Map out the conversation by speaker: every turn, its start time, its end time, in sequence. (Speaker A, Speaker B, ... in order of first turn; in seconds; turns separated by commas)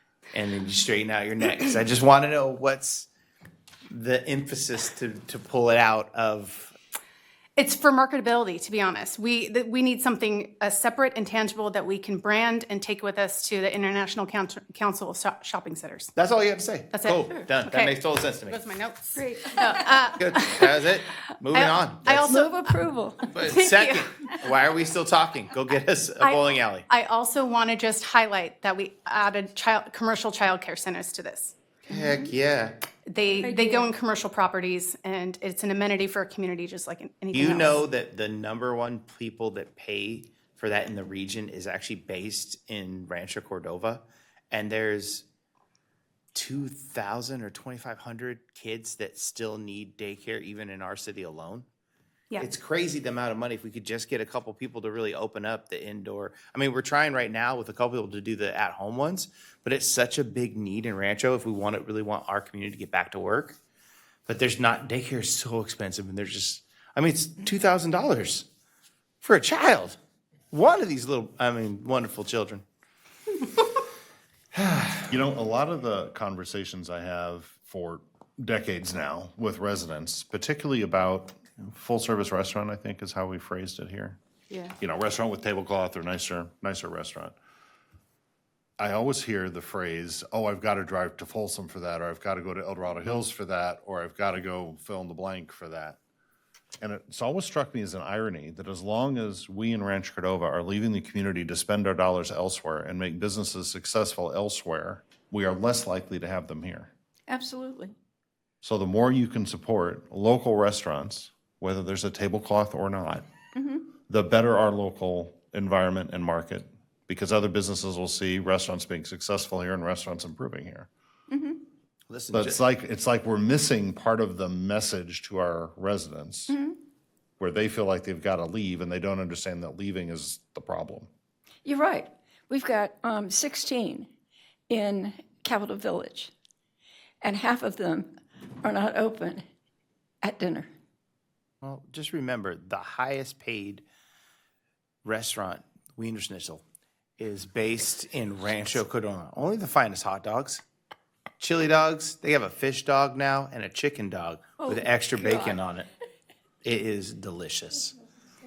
Speaker A: 0.3-3.1, Speaker A: 3.9-6.8, Speaker B: 7.6-16.1, Speaker A: 16.1-18.6, Speaker B: 16.9-20.9, Speaker C: 19.1-20.0, Speaker A: 20.1-22.3, Speaker B: 21.5-22.8, Speaker C: 22.3-23.5, Speaker A: 23.3-26.9, Speaker B: 23.4-24.1, Speaker B: 26.2-31.6, Speaker A: 31.9-32.8, Speaker C: 31.9-32.2, Speaker B: 33.1-37.8, Speaker C: 33.4-33.9, Speaker A: 37.3-45.2, Speaker A: 46.3-51.7, Speaker A: 52.4-63.6, Speaker A: 64.3-68.5, Speaker A: 69.2-70.0, Speaker A: 70.5-72.6, Speaker A: 74.5-75.1, Speaker D: 75.1-84.2, Speaker D: 84.8-87.4, Speaker D: 88.8-96.0, Speaker D: 96.8-106.9, Speaker C: 107.3-108.0, Speaker D: 108.6-113.3, Speaker C: 113.5-113.9, Speaker D: 114.1-120.9, Speaker C: 121.3-121.6, Speaker A: 122.1-122.6, Speaker D: 122.3-126.5, Speaker C: 126.5-126.8, Speaker D: 127.4-131.1, Speaker C: 131.7-134.1, Speaker C: 134.7-136.3, Speaker C: 137.2-138.1, Speaker C: 138.6-139.4, Speaker C: 140.2-140.7, Speaker A: 141.6-143.8, Speaker A: 145.0-146.6, Speaker A: 147.2-150.6, Speaker A: 151.4-155.9, Speaker C: 154.6-155.6, Speaker A: 156.6-157.9